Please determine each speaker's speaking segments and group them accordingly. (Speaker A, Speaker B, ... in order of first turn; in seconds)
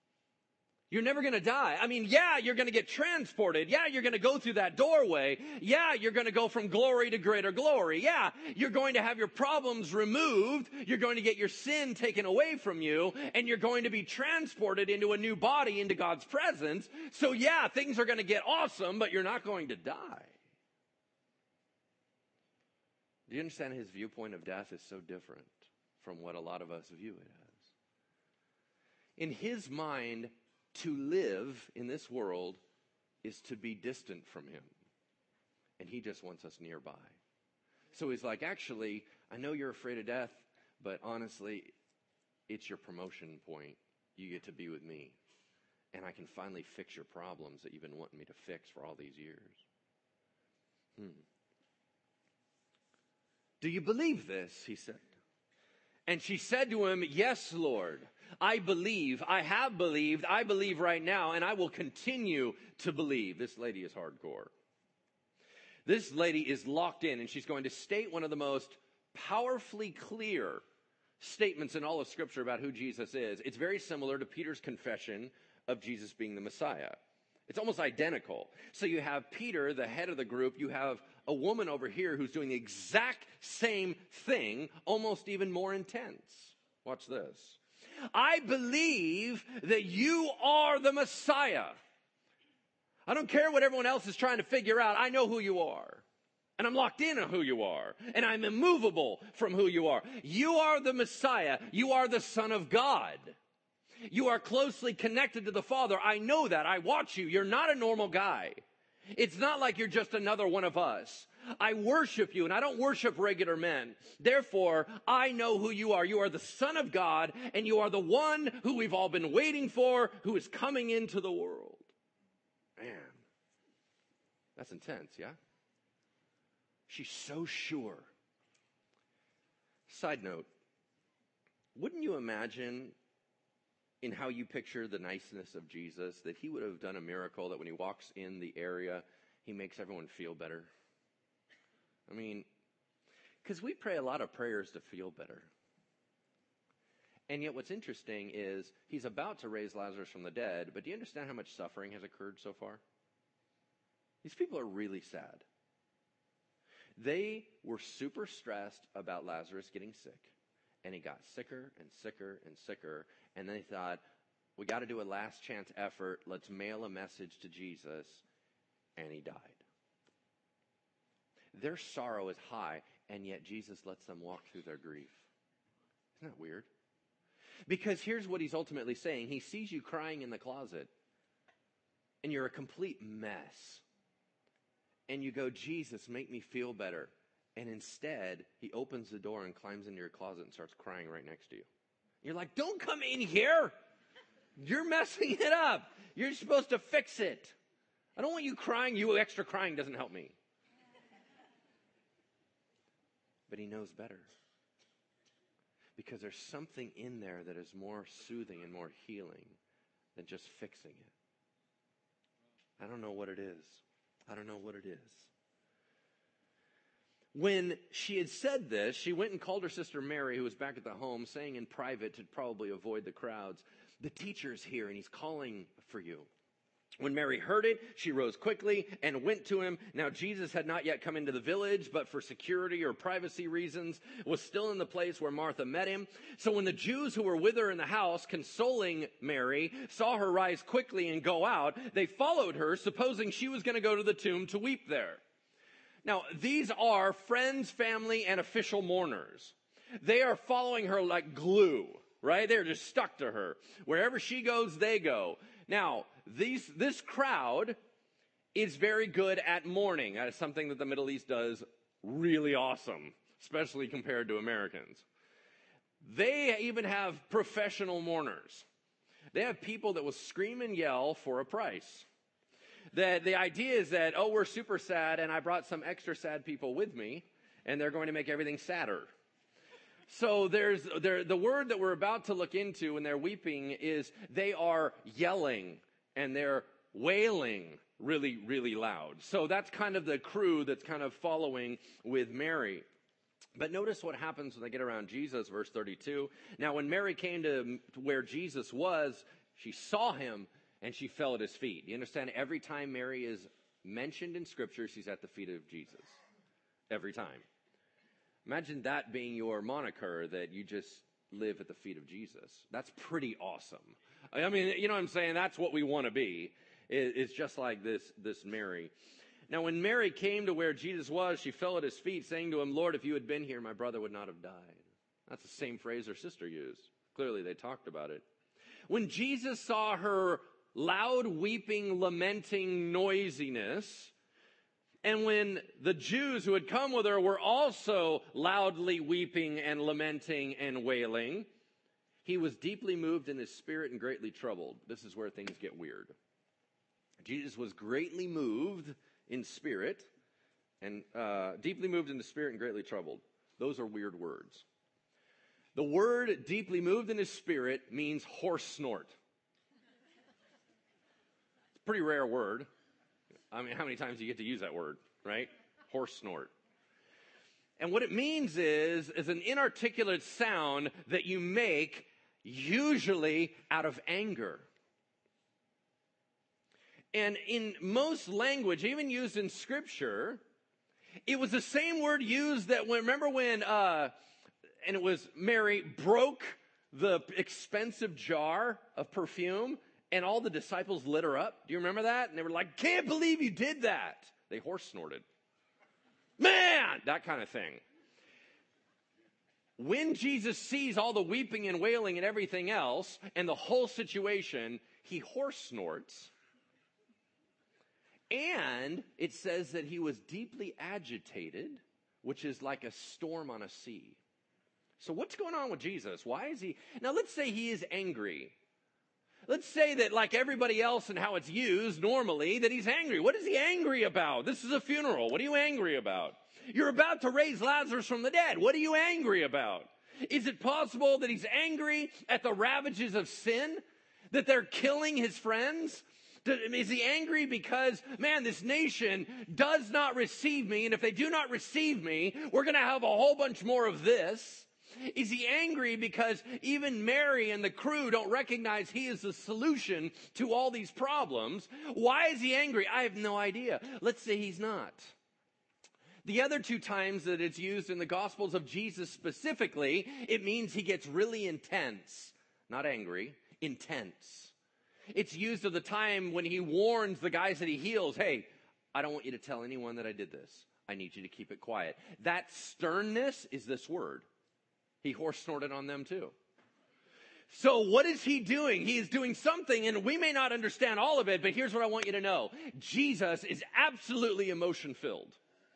Speaker A: 0.9-20.4, 23.3-27.7, 29.2-32.6, 33.2-34.7, 35.8-37.2, 37.9-41.7, 42.5-45.2, 45.9-49.6, 51.0-51.2, 53.6-55.1, 56.1-64.5, 65.9-70.6, 71.2-87.6, 88.1-91.8, 93.1-96.0, 96.6-103.4, 104.1-108.6, 109.1-121.9, 122.8-123.2, 124.6-125.4, 126.9-128.1, 129.9-130.5, 131.8-133.0, 134.0-140.7, 142.1-142.5, 143.4-145.5, 147.3-152.8, 154.2-155.4, 157.0-164.0, 164.6-168.2, 169.0-169.6, 171.5-175.3, 176.2-176.7, 177.7-180.9, 182.2-183.8, 185.1-191.7, 192.2-193.7, 194.6-197.6, 198.2-200.4, 203.5-204.3, 206.0-209.6, 210.2-211.1, 212.8-215.3, 217.3-226.3, 227.0-245.2, 246.0-257.8, 258.6-265.1, 266.0-268.7, 269.3-272.1, 272.9-279.1, 280.1-292.9, 293.6-306.2, 306.9-307.4, 308.4-318.9, 319.5-328.2, 328.9-334.1, 335.0-341.5, 342.2-346.1, 347.2-350.1, 350.8-354.6, 355.8-359.2, 361.8-362.7, 363.5-366.5, 367.8-374.7, 377.1-380.4, 381.3-384.1, 384.8-395.2, 396.4-397.8, 399.8-406.3, 408.3-414.2, 415.0-418.6, 419.5-455.1, 456.2-464.5, 465.1-474.3, 475.0-476.4, 477.5-485.4